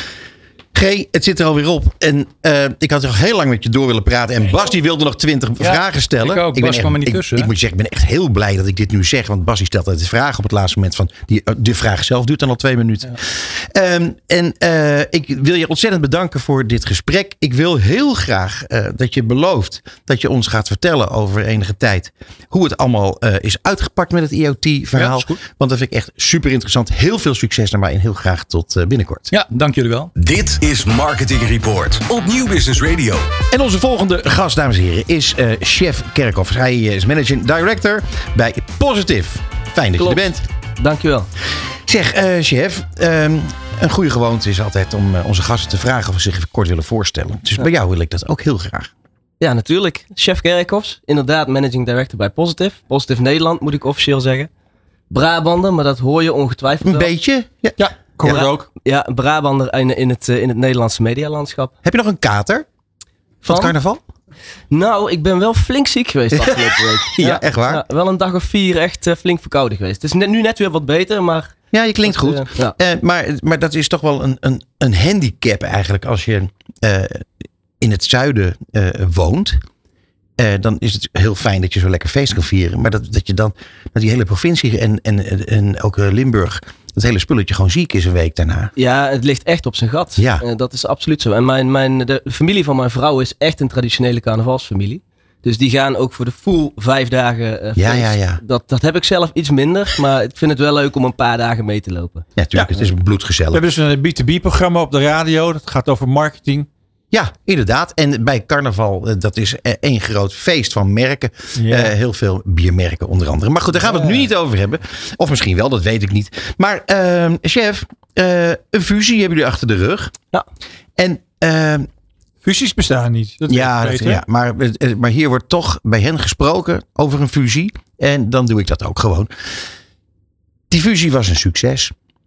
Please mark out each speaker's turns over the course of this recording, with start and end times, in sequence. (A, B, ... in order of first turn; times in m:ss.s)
0:00.7-0:29.3 A
0:05.6-0:07.5 B
0:24.9-0:25.4 B
0:29.3-0:30.1 B
0:30.2-0:33.3 C
0:33.5-0:40.4 A
0:40.0-0:41.3 D
0:41.8-0:48.9 A
0:49.4-0:54.5 D
0:55.1-0:57.1 D
0:56.8-0:58.4 A
0:57.8-0:58.7 E
0:58.4-1:01.7 D
1:01.8-1:02.7 A
1:03.4-1:04.0 A
1:03.5-1:03.7 D
1:04.7-1:12.7 D
1:07.1-1:07.8 A
1:11.7-1:17.3 A
1:17.8-1:19.6 A
1:20.4-1:28.7 A
1:28.8-1:42.3 D
1:30.2-1:30.4 A
1:37.8-1:38.4 A
1:42.4-1:43.6 A
1:43.5-1:46.7 E
1:47.1-2:00.1 A
1:51.6-1:51.9 E
2:01.0-2:01.9 A
2:02.4-2:04.2 E
2:03.5-2:09.6 A
2:10.7-2:11.9 A